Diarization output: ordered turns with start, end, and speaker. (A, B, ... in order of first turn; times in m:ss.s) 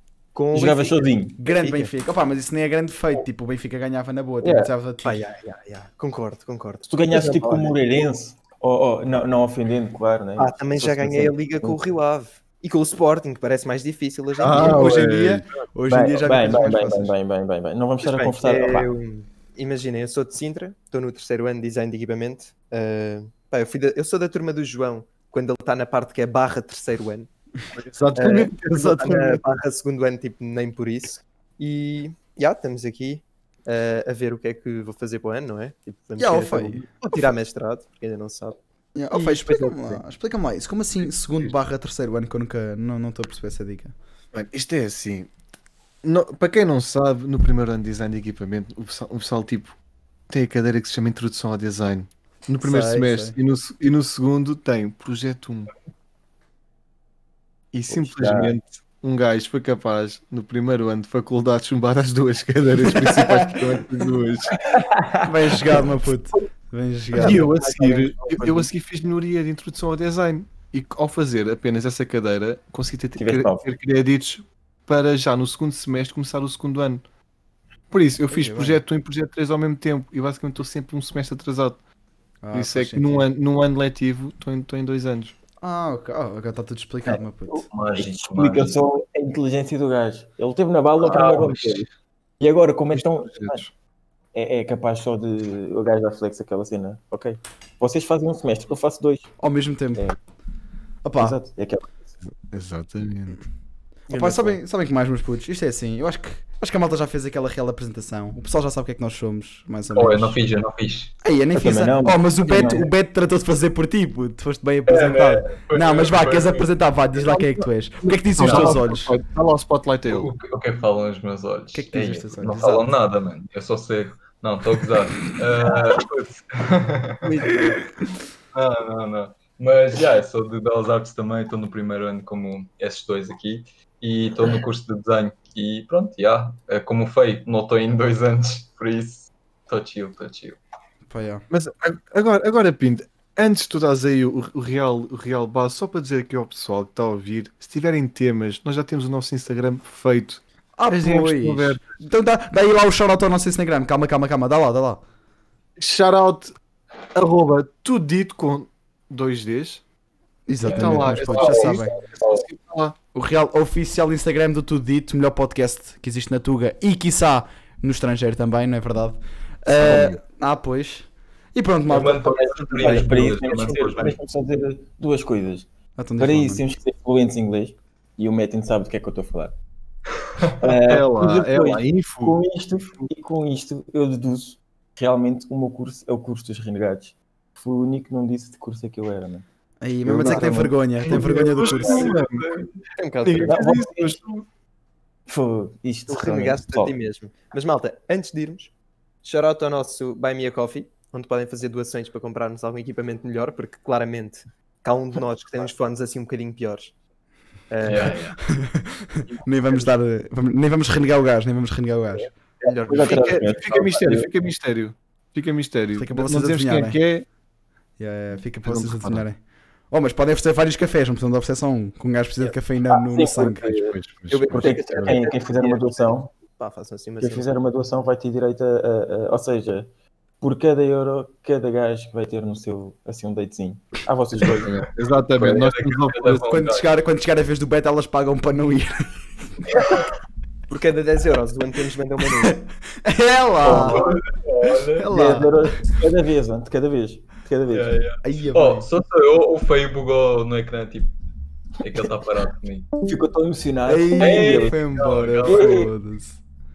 0:00.4-0:01.1 A
0:00.5-0:01.4 B
0:01.4-0:05.2 C
0:01.6-0:01.9 A
0:04.4-0:04.7 B
0:05.0-0:07.8 A
0:06.9-0:11.9 B
0:10.4-0:15.0 A
0:14.4-0:15.4 D
0:14.5-0:17.1 C
0:15.9-0:18.9 B
0:18.0-0:27.3 A
0:27.8-0:29.4 D
0:28.1-0:38.6 A
0:36.2-0:36.9 C
0:39.0-0:44.0 C
0:39.1-0:40.0 A
0:44.3-0:45.3 D
0:46.0-0:49.8 D
0:50.3-0:55.7 D
0:52.6-0:53.4 C
0:57.7-1:04.6 D
0:57.9-0:58.5 B
1:04.6-1:05.8 B
1:05.2-1:07.5 C
1:07.2-1:17.0 D
1:07.3-1:08.6 B
1:07.9-1:08.2 A
1:13.2-1:13.6 B
1:17.9-1:21.8 D
1:18.3-1:18.8 C
1:22.4-1:23.3 C
1:22.5-1:25.4 D
1:25.6-1:27.6 C
1:27.1-1:31.9 B
1:27.7-1:28.8 E
1:31.0-1:31.5 E
1:31.3-1:31.8 D
1:32.4-1:33.6 B
1:32.9-1:33.7 D
1:34.3-1:39.3 B
1:39.4-1:40.1 C
1:41.0-1:41.4 C
1:41.2-1:42.1 B
1:42.5-1:43.4 D
1:44.1-1:44.6 B
1:44.1-1:50.4 C
1:49.9-1:51.1 E
1:51.2-1:59.1 C
1:51.5-1:52.9 B
1:54.9-1:56.7 E
1:57.2-2:00.3 D
1:58.4-1:58.8 E
2:00.0-2:07.3 E
2:01.7-2:02.9 C
2:07.2-2:07.8 A
2:08.5-2:20.6 E
2:21.1-2:21.4 C
2:21.5-2:31.8 D
2:30.8-2:35.0 C
2:35.8-2:36.5 D
2:37.1-2:39.8 D
2:40.5-2:42.0 C
2:40.6-2:43.0 D
2:40.6-2:42.4 E
2:43.1-2:52.2 C
2:49.8-2:50.2 D
2:51.9-2:54.2 E
2:52.2-2:55.7 B
2:56.0-2:56.6 C
2:56.2-2:59.5 B
3:00.6-3:09.4 B
3:00.8-3:02.4 D
3:09.8-3:12.1 C
3:10.0-3:10.8 B
3:11.0-3:12.6 D
3:11.6-3:12.0 E
3:11.8-3:12.1 A
3:13.0-3:13.6 A
3:13.2-3:14.4 D
3:13.5-3:14.2 B
3:15.3-3:17.0 B
3:16.1-3:18.7 A
3:19.2-3:26.9 A
3:27.7-3:28.2 A
3:27.8-3:28.4 E
3:27.9-3:32.3 C
3:29.3-3:29.9 A
3:32.6-3:33.8 A
3:32.6-3:34.3 B
3:32.9-3:37.2 D
3:36.0-3:37.0 C
3:38.0-3:39.4 C
3:38.6-3:39.2 D
3:39.9-3:43.7 C
3:42.9-3:44.0 B
3:43.8-3:45.2 D
3:44.3-3:47.5 A
3:44.5-3:46.3 B
3:47.2-3:49.9 B
3:50.4-3:54.7 B
3:54.4-3:56.9 E
3:54.9-3:56.5 D
3:56.5-3:59.1 C
4:00.7-4:02.6 A
4:03.0-4:04.1 C
4:03.6-4:04.2 B
4:03.7-4:05.1 E
4:05.0-4:05.8 C
4:05.1-4:08.0 B
4:07.7-4:11.1 E
4:08.2-4:08.9 C
4:11.8-4:12.9 E
4:13.0-4:14.8 B
4:13.9-4:16.4 C
4:14.2-4:15.9 E
4:15.4-4:15.9 B